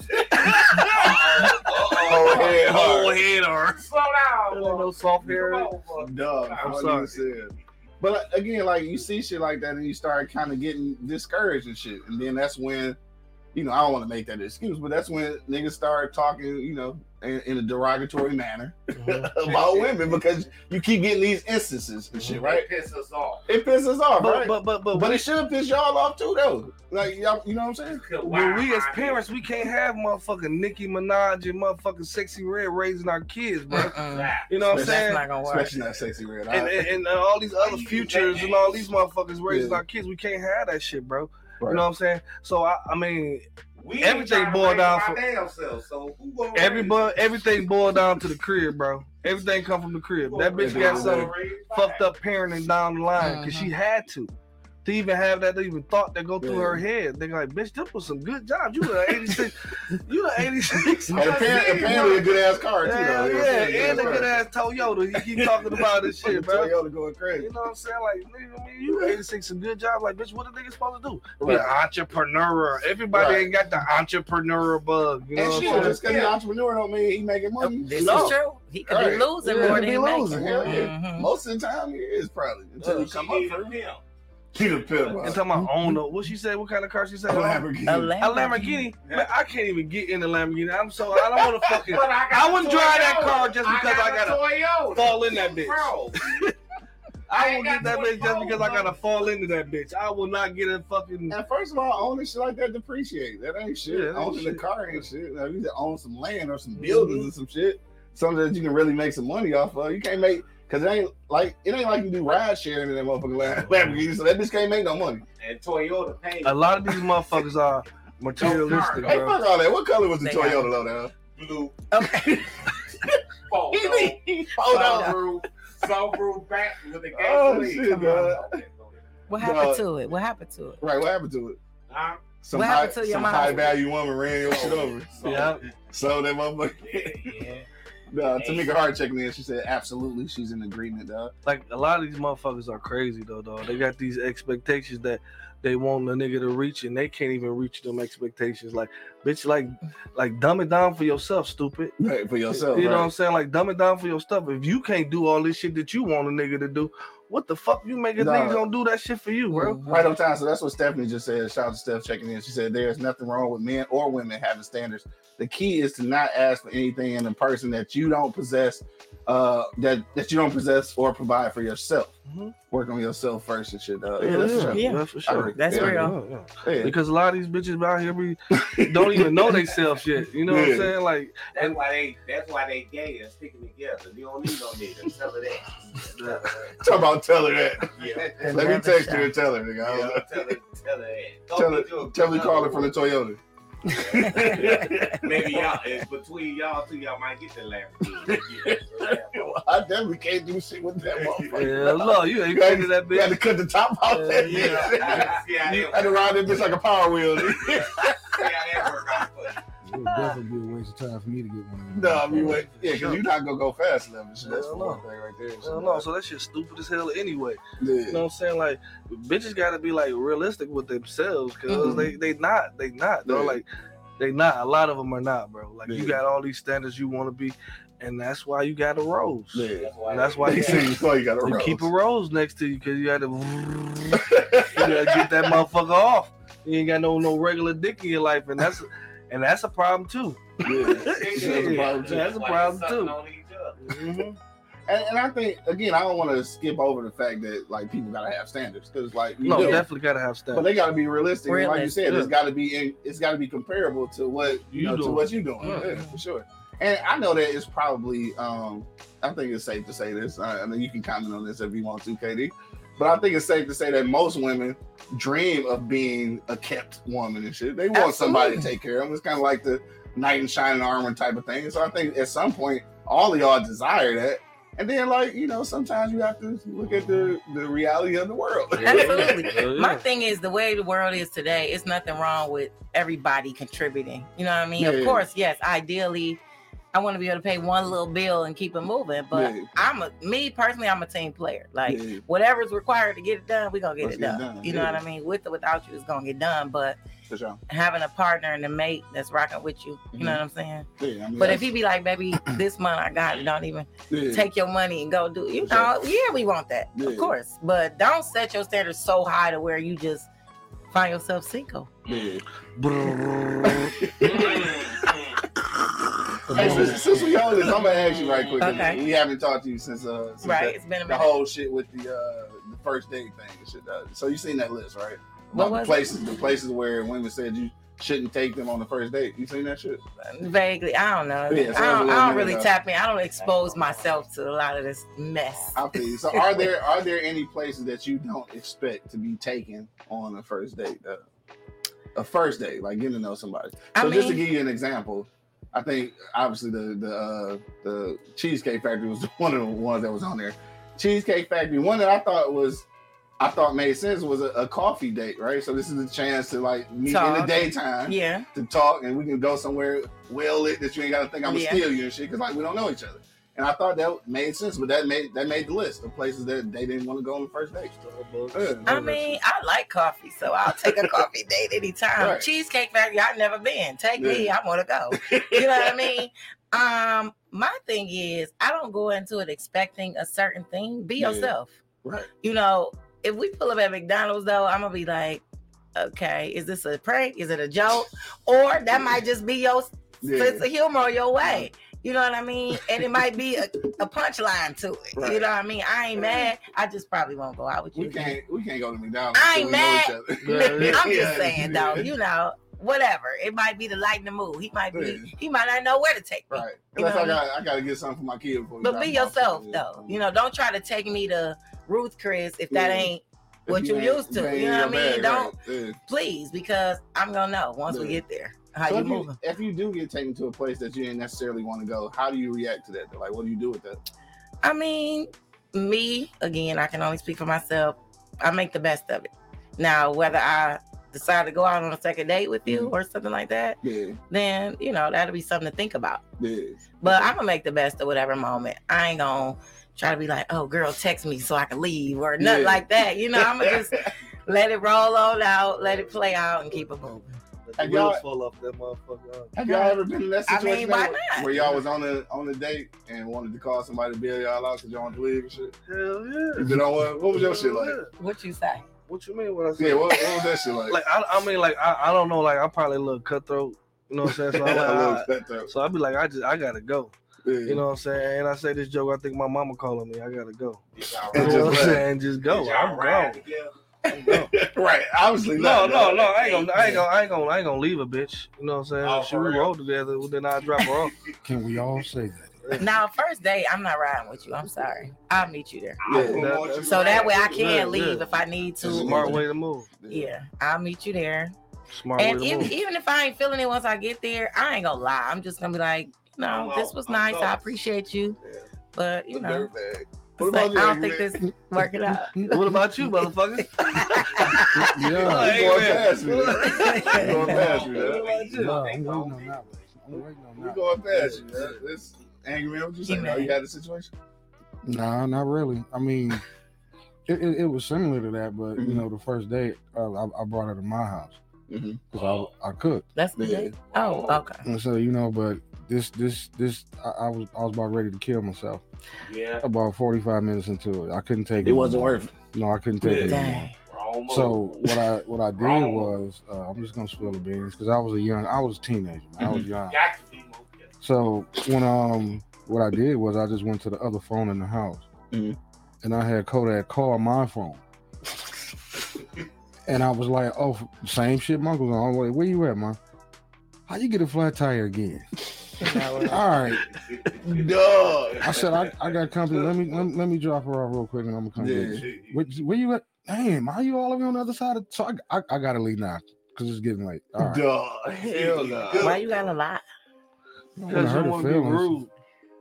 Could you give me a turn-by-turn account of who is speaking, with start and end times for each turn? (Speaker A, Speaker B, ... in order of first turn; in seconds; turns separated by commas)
Speaker A: 0.1-3.2, Speaker B: 0.3-1.0, Speaker C: 0.8-7.0, Speaker B: 2.1-3.7, Speaker B: 4.5-5.7, Speaker A: 6.0-13.0, Speaker B: 6.6-7.1, Speaker A: 13.5-22.7, Speaker B: 18.9-19.4, Speaker C: 19.4-20.2, Speaker B: 22.1-22.4, Speaker C: 22.2-23.5, Speaker A: 23.5-28.0, Speaker B: 24.2-25.2, Speaker C: 28.0-29.6, Speaker B: 28.2-35.3, Speaker D: 33.7-35.7, Speaker C: 34.0-34.7, Speaker A: 34.7-36.9, Speaker B: 36.5-43.4, Speaker C: 37.6-38.9, Speaker A: 39.5-39.8, Speaker C: 43.8-47.2, Speaker B: 44.0-45.2, Speaker B: 46.5-54.3, Speaker C: 50.2-52.1, Speaker A: 50.6-51.3, Speaker D: 53.2-53.7, Speaker B: 54.8-62.2, Speaker A: 56.4-56.8, Speaker C: 61.1-62.5, Speaker A: 61.1-64.4, Speaker B: 62.8-66.7, Speaker C: 63.2-64.3, Speaker A: 65.4-67.5, Speaker B: 67.4-76.0, Speaker A: 68.9-69.2, Speaker A: 71.4-71.8, Speaker A: 73.1-73.5, Speaker A: 75.3-83.8, Speaker C: 75.5-76.4, Speaker D: 77.6-81.3, Speaker B: 77.9-78.4, Speaker B: 79.4-80.9, Speaker C: 82.8-84.0, Speaker A: 84.5-85.4, Speaker C: 84.9-85.2, Speaker B: 85.2-96.5, Speaker E: 85.6-85.9, Speaker A: 87.3-88.2, Speaker D: 87.9-88.9, Speaker C: 91.6-96.4, Speaker B: 97.3-101.4, Speaker C: 97.3-99.0, Speaker A: 101.3-115.2, Speaker B: 103.8-105.0, Speaker B: 106.8-107.3, Speaker B: 113.6-114.0, Speaker C: 115.4-117.1, Speaker B: 116.4-119.4, Speaker C: 118.3-119.3, Speaker A: 119.0-121.1, Speaker D: 120.2-120.7, Speaker C: 121.3-121.8, Speaker D: 121.9-122.6, Speaker A: 122.0-122.6, Speaker C: 123.5-129.0, Speaker A: 123.7-125.2, Speaker D: 124.6-125.2, Speaker A: 127.1-128.6, Speaker D: 127.9-128.3, Speaker D: 129.3-130.8, Speaker A: 129.4-129.8, Speaker A: 130.8-131.6, Speaker C: 131.9-132.3, Speaker A: 132.4-135.2, Speaker D: 132.5-133.7, Speaker C: 134.4-135.7, Speaker B: 135.2-135.6, Speaker A: 135.9-137.3, Speaker C: 136.8-137.7, Speaker A: 138.1-141.3, Speaker C: 138.2-138.7, Speaker B: 141.4-151.9, Speaker A: 152.0-153.1, Speaker B: 152.6-159.8, Speaker A: 158.2-158.6, Speaker D: 159.5-160.1, Speaker A: 159.8-172.2, Speaker B: 172.3-172.5, Speaker A: 172.7-177.0, Speaker B: 174.2-181.8, Speaker D: 174.7-176.2, Speaker A: 178.5-179.7, Speaker A: 180.5-180.9, Speaker C: 181.5-186.8, Speaker B: 186.2-186.7, Speaker A: 186.8-190.6, Speaker C: 187.9-188.4, Speaker D: 188.4-189.3, Speaker C: 189.8-193.0, Speaker A: 191.5-195.8, Speaker C: 193.9-199.5, Speaker D: 194.3-194.7, Speaker A: 198.3-208.9, Speaker C: 201.1-202.1, Speaker B: 201.5-203.4, Speaker B: 204.1-205.1, Speaker C: 204.3-206.7, Speaker C: 207.6-209.6, Speaker E: 209.8-212.6, Speaker A: 211.9-216.1, Speaker B: 212.2-213.2, Speaker B: 214.4-215.0, Speaker B: 215.6-223.7, Speaker A: 217.8-218.3, Speaker D: 221.7-222.1, Speaker A: 223.2-223.6, Speaker B: 224.2-243.2, Speaker A: 225.9-226.2, Speaker A: 229.5-229.9, Speaker C: 229.8-230.9, Speaker A: 230.4-231.9, Speaker A: 234.1-235.4, Speaker A: 240.7-242.3, Speaker C: 241.0-243.8, Speaker B: 243.8-244.4, Speaker A: 244.9-249.9, Speaker B: 249.4-250.7, Speaker D: 249.6-249.8, Speaker A: 250.5-279.5, Speaker D: 251.5-252.0, Speaker B: 252.0-252.3, Speaker B: 254.7-256.0, Speaker D: 255.6-256.2, Speaker D: 267.9-268.7, Speaker B: 278.8-280.1, Speaker D: 278.8-286.4, Speaker A: 284.8-285.3, Speaker D: 286.9-297.0, Speaker A: 289.3-289.7, Speaker A: 291.9-292.2, Speaker A: 294.0-295.0, Speaker A: 297.3-297.6, Speaker D: 297.7-310.3, Speaker A: 300.1-300.4, Speaker A: 301.0-301.7, Speaker A: 304.1-304.5, Speaker A: 305.6-305.9, Speaker A: 307.0-307.4, Speaker D: 310.9-311.9, Speaker C: 312.1-312.4, Speaker A: 312.1-312.4, Speaker B: 312.8-314.6, Speaker A: 313.7-315.0, Speaker C: 314.5-315.1, Speaker B: 316.5-317.9, Speaker A: 316.5-330.0, Speaker E: 316.6-316.9, Speaker D: 318.6-319.0, Speaker D: 320.4-321.3, Speaker D: 325.5-326.1, Speaker D: 330.3-335.8, Speaker A: 331.5-332.7, Speaker C: 333.4-334.2, Speaker A: 335.8-341.2, Speaker D: 336.4-336.7, Speaker A: 342.1-352.9, Speaker D: 343.9-344.4, Speaker A: 353.4-367.9, Speaker D: 357.1-358.5, Speaker D: 361.5-361.8, Speaker B: 367.9-369.4, Speaker A: 368.5-369.0, Speaker D: 368.9-381.8, Speaker A: 372.2-372.5, Speaker A: 374.2-374.5, Speaker A: 375.2-376.1, Speaker A: 381.2-381.5, Speaker A: 382.0-382.3, Speaker D: 382.4-385.4, Speaker D: 385.9-398.4, Speaker A: 390.2-390.7, Speaker A: 391.4-391.7, Speaker A: 395.1-395.5, Speaker A: 396.2-396.5, Speaker A: 398.0-402.1, Speaker D: 399.3-407.4, Speaker B: 400.4-401.1, Speaker A: 404.9-405.3, Speaker A: 406.5-410.2, Speaker D: 408.8-415.5, Speaker A: 412.7-413.1, Speaker A: 413.7-416.0, Speaker D: 416.1-419.4, Speaker A: 417.9-418.2, Speaker A: 418.9-424.0, Speaker D: 424.6-433.8, Speaker A: 432.7-432.9, Speaker A: 433.8-434.2, Speaker D: 434.3-436.2, Speaker A: 436.4-437.3, Speaker D: 437.0-447.3, Speaker A: 442.4-443.8, Speaker B: 447.7-449.6, Speaker A: 447.8-448.2, Speaker A: 449.5-455.8, Speaker D: 449.6-451.5, Speaker B: 455.9-458.1, Speaker A: 456.6-458.0, Speaker D: 458.2-458.9, Speaker B: 459.1-460.3, Speaker A: 459.8-461.0, Speaker B: 460.9-467.1, Speaker A: 464.4-465.7, Speaker A: 467.4-467.8, Speaker B: 467.6-470.8, Speaker C: 471.0-473.7, Speaker A: 471.3-472.1, Speaker B: 471.3-473.4, Speaker A: 474.1-476.3, Speaker B: 474.1-474.5, Speaker B: 475.6-481.1, Speaker C: 476.1-477.0, Speaker C: 479.0-479.8, Speaker E: 481.4-482.6, Speaker B: 482.6-482.9, Speaker D: 482.8-486.0, Speaker A: 484.6-485.0, Speaker C: 486.0-487.6, Speaker A: 486.1-486.6, Speaker B: 486.1-490.0, Speaker D: 486.8-489.4, Speaker A: 488.8-489.4, Speaker A: 490.0-490.4, Speaker D: 490.1-491.5, Speaker B: 491.9-492.8, Speaker D: 492.2-498.4, Speaker C: 496.4-497.7, Speaker D: 498.9-499.7, Speaker A: 499.3-501.3, Speaker D: 500.4-502.6, Speaker B: 502.5-508.9, Speaker D: 503.9-504.8, Speaker E: 504.7-505.7, Speaker A: 505.2-508.3, Speaker D: 506.7-507.8, Speaker C: 507.4-510.0, Speaker E: 508.5-510.9, Speaker A: 510.6-514.1, Speaker B: 511.1-511.6, Speaker D: 513.1-513.5, Speaker E: 514.8-516.4, Speaker E: 517.3-521.4, Speaker A: 518.8-519.0, Speaker A: 521.7-522.0, Speaker E: 522.1-523.0, Speaker C: 522.1-522.5, Speaker D: 523.1-524.6, Speaker A: 523.4-523.8, Speaker C: 523.9-524.4, Speaker E: 524.6-528.8, Speaker C: 529.2-529.6, Speaker E: 529.6-533.7, Speaker A: 531.6-532.3, Speaker D: 533.1-533.7, Speaker C: 533.1-534.7, Speaker E: 534.3-540.0, Speaker C: 535.6-536.1, Speaker A: 539.4-539.7, Speaker C: 539.9-540.9, Speaker E: 541.0-545.1, Speaker A: 545.3-545.6, Speaker E: 546.0-547.8, Speaker E: 549.9-553.0, Speaker E: 553.9-555.3, Speaker D: 555.8-556.5, Speaker E: 556.3-556.9, Speaker C: 556.7-560.1, Speaker A: 557.4-558.6, Speaker E: 558.4-567.6, Speaker A: 561.6-562.1, Speaker C: 562.0-562.4, Speaker A: 567.4-569.2, Speaker C: 568.2-569.5, Speaker D: 569.0-569.8, Speaker A: 570.8-571.1, Speaker B: 570.9-572.1, Speaker E: 570.9-572.0